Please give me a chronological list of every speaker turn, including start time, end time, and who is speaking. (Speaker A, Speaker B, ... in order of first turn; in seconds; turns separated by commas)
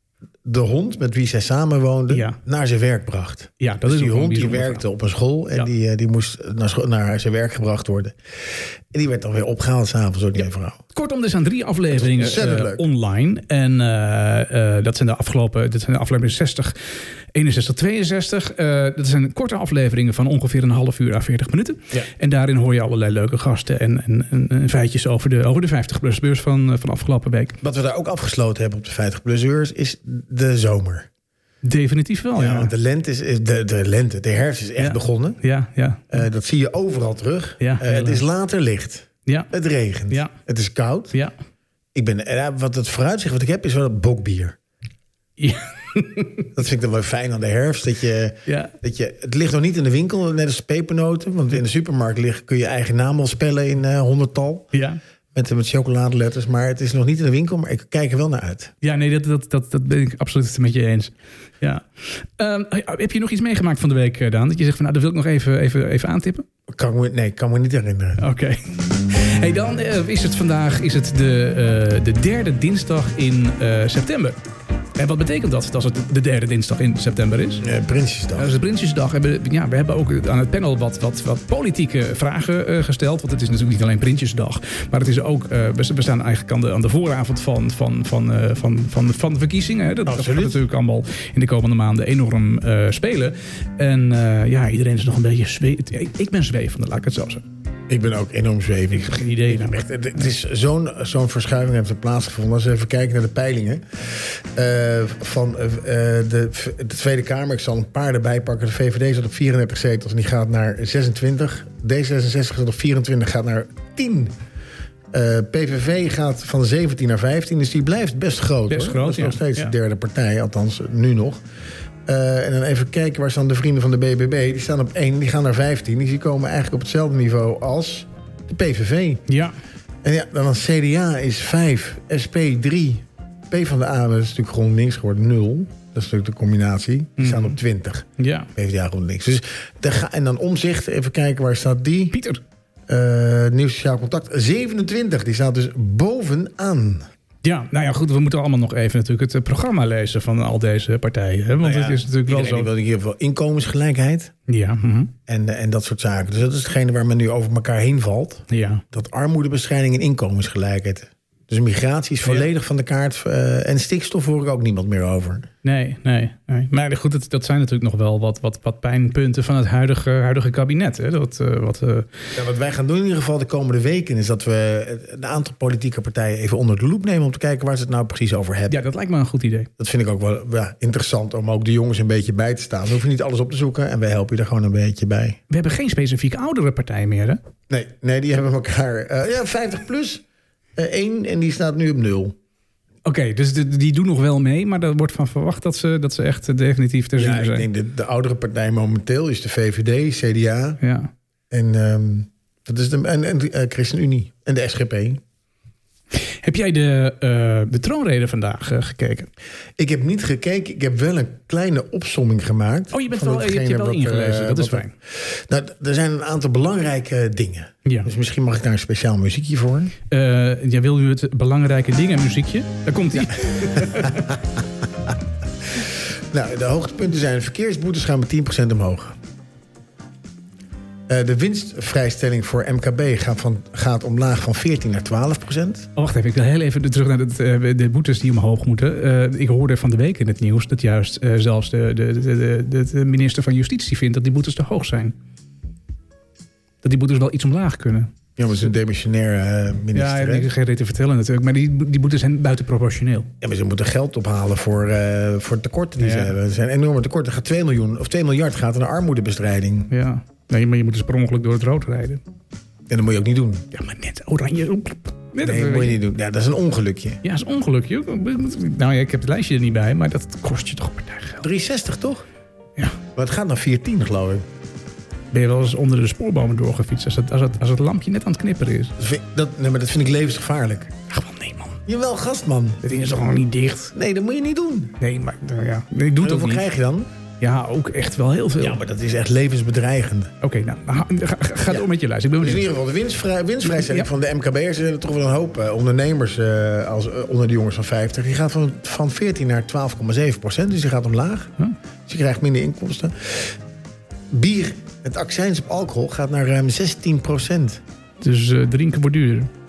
Speaker A: 0.4-8.2, Speaker B: 2.1-2.4, Speaker B: 3.6-4.8, Speaker A: 8.9-10.8, Speaker B: 10.9-16.7, Speaker A: 11.9-12.8, Speaker B: 17.3-27.6, Speaker A: 27.6-31.1, Speaker B: 31.6-32.7, Speaker A: 32.3-35.4, Speaker B: 34.8-36.2, Speaker A: 36.1-41.1, Speaker B: 37.6-38.2, Speaker B: 39.2-39.5, Speaker B: 40.1-40.3, Speaker A: 41.9-44.5, Speaker B: 45.4-46.5, Speaker A: 46.5-54.7, Speaker B: 48.5-48.7, Speaker B: 54.7-55.0, Speaker A: 55.3-58.7, Speaker B: 58.8-66.5, Speaker A: 66.7-68.2, Speaker B: 68.2-74.4, Speaker B: 75.0-77.6, Speaker A: 77.6-78.5, Speaker B: 78.3-97.4, Speaker A: 90.0-90.6, Speaker A: 97.9-114.3, Speaker B: 98.9-99.8, Speaker A: 115.1-121.4, Speaker B: 118.7-119.7, Speaker A: 122.1-129.2, Speaker B: 129.3-129.5, Speaker A: 130.0-142.2, Speaker B: 137.2-137.6, Speaker B: 138.2-138.5, Speaker B: 142.1-142.4, Speaker A: 142.9-147.1, Speaker B: 147.4-152.7, Speaker A: 151.6-154.3, Speaker B: 154.5-155.1, Speaker A: 155.3-165.5, Speaker B: 158.5-158.8, Speaker B: 165.6-172.1, Speaker A: 172.3-178.8, Speaker B: 178.7-179.7, Speaker A: 179.8-185.4, Speaker B: 185.5-187.4, Speaker A: 187.7-190.2, Speaker A: 190.8-192.3, Speaker B: 193.0-197.7, Speaker A: 197.2-200.8, Speaker B: 200.8-201.1, Speaker A: 201.5-205.2, Speaker B: 206.4-209.3, Speaker A: 209.8-219.9, Speaker B: 212.9-214.9, Speaker B: 217.8-218.1, Speaker B: 220.1-224.3, Speaker A: 223.7-224.4, Speaker A: 225.8-229.2, Speaker A: 231.1-235.9, Speaker B: 235.9-245.2, Speaker B: 246.8-248.1, Speaker A: 248.4-250.5, Speaker B: 249.9-253.3, Speaker A: 253.4-259.9, Speaker B: 256.0-256.3, Speaker B: 259.9-262.2, Speaker A: 262.9-263.6, Speaker B: 263.7-266.0, Speaker A: 265.4-267.2, Speaker B: 267.2-271.4, Speaker A: 271.4-272.2, Speaker A: 273.1-274.4, Speaker B: 275.3-278.9, Speaker A: 279.0-280.9, Speaker B: 281.1-281.8, Speaker A: 281.9-282.8, Speaker B: 282.8-283.9, Speaker A: 283.9-284.9, Speaker B: 285.0-286.6, Speaker A: 286.2-287.1, Speaker B: 287.4-288.8, Speaker A: 288.6-290.3, Speaker B: 290.4-292.6, Speaker A: 292.4-301.5, Speaker B: 293.6-294.1, Speaker A: 302.1-303.6, Speaker A: 304.3-307.8, Speaker B: 308.2-309.5